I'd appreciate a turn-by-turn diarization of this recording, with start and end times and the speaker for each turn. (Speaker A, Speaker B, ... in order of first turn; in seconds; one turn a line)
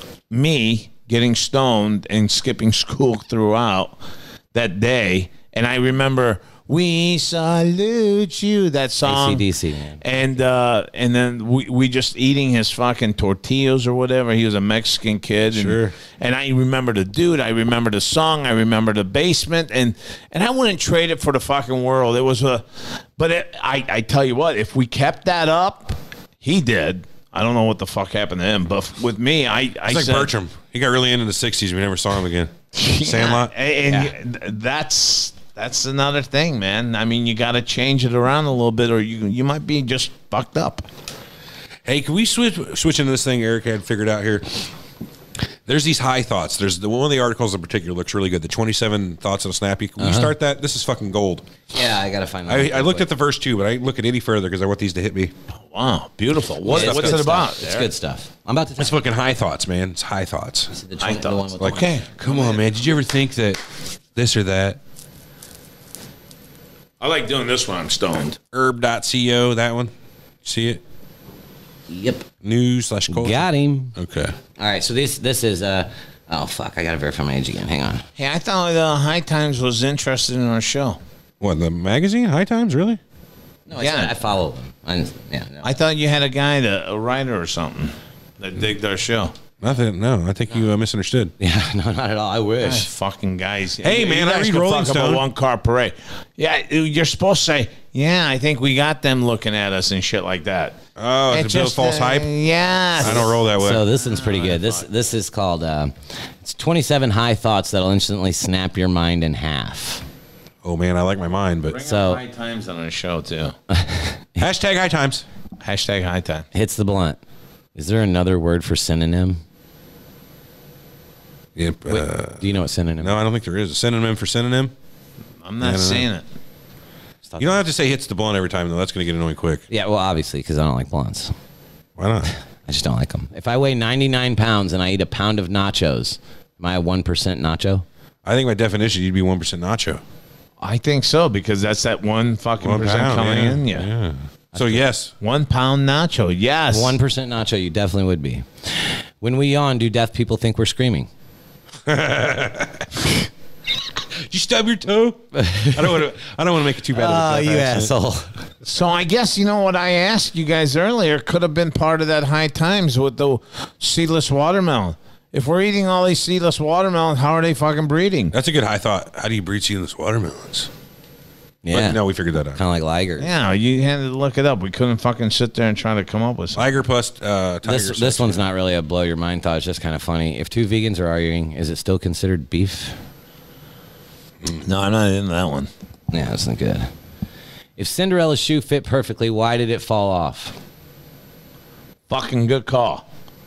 Speaker A: 0.3-4.0
Speaker A: 4.5-9.4
Speaker B: 9.0-10.0
Speaker A: 10.0-30.3
Speaker C: 15.5-15.9
Speaker C: 29.9-33.5
Speaker A: 32.7-40.9
Speaker C: 41.8-44.7
Speaker C: 45.6-51.4
Speaker B: 50.0-50.3
Speaker B: 51.7-53.1
Speaker C: 52.5-55.3
Speaker A: 55.6-57.9
Speaker B: 56.7-59.0
Speaker C: 56.7-57.2
Speaker C: 58.8-60.7
Speaker B: 60.7-62.0
Speaker A: 61.0-62.6
Speaker C: 61.6-63.6
Speaker C: 64.1-64.8
Speaker A: 67.0-68.4
Speaker C: 68.5-69.9
Speaker C: 70.4-70.8
Speaker B: 71.9-72.2
Speaker C: 72.4-74.3
Speaker B: 73.1-73.9
Speaker B: 74.6-78.1
Speaker A: 78.2-81.0
Speaker C: 81.4-83.0
Speaker B: 83.7-85.7
Speaker A: 83.8-84.1
Speaker A: 85.6-89.3
Speaker C: 89.6-91.3
Speaker B: 91.4-92.9
Speaker A: 92.6-100.8
Speaker C: 93.8-95.2
Speaker C: 101.0-102.3
Speaker A: 101.3-103.5
Speaker C: 103.0-103.8
Speaker B: 103.0-110.0
Speaker A: 104.0-104.8
Speaker C: 110.6-111.8
Speaker A: 111.7-113.6
Speaker B: 111.8-112.2
Speaker B: 113.7-114.4
Speaker C: 114.4-115.2
Speaker A: 115.6-116.5
Speaker B: 116.5-117.2
Speaker B: 117.8-119.4
Speaker C: 121.6-122.4
Speaker B: 121.9-123.2
Speaker C: 123.0-124.7
Speaker A: 125.4-126.2
Speaker C: 125.6-126.1
Speaker B: 127.2-127.6
Speaker C: 127.4-129.6
Speaker B: 129.7-131.3
Speaker C: 132.0-132.3
Speaker B: 132.7-137.8
Speaker C: 138.2-140.0
Speaker A: 140.6-143.9
Speaker C: 142.6-145.1
Speaker B: 144.5-144.8
Speaker A: 145.2-146.9
Speaker B: 146.7-151.1
Speaker C: 151.9-153.1
Speaker C: 154.2-157.9
Speaker B: 155.3-156.0
Speaker B: 156.9-158.3
Speaker A: 158.6-168.3
Speaker C: 168.3-170.7
Speaker B: 171.6-172.0
Speaker C: 171.7-172.6
Speaker B: 172.6-173.3
Speaker A: 173.2-176.6
Speaker C: 176.6-178.4
Speaker B: 177.6-183.0
Speaker A: 184.6-185.7
Speaker B: 186.1-186.9
Speaker B: 187.8-190.6
Speaker A: 192.1-193.0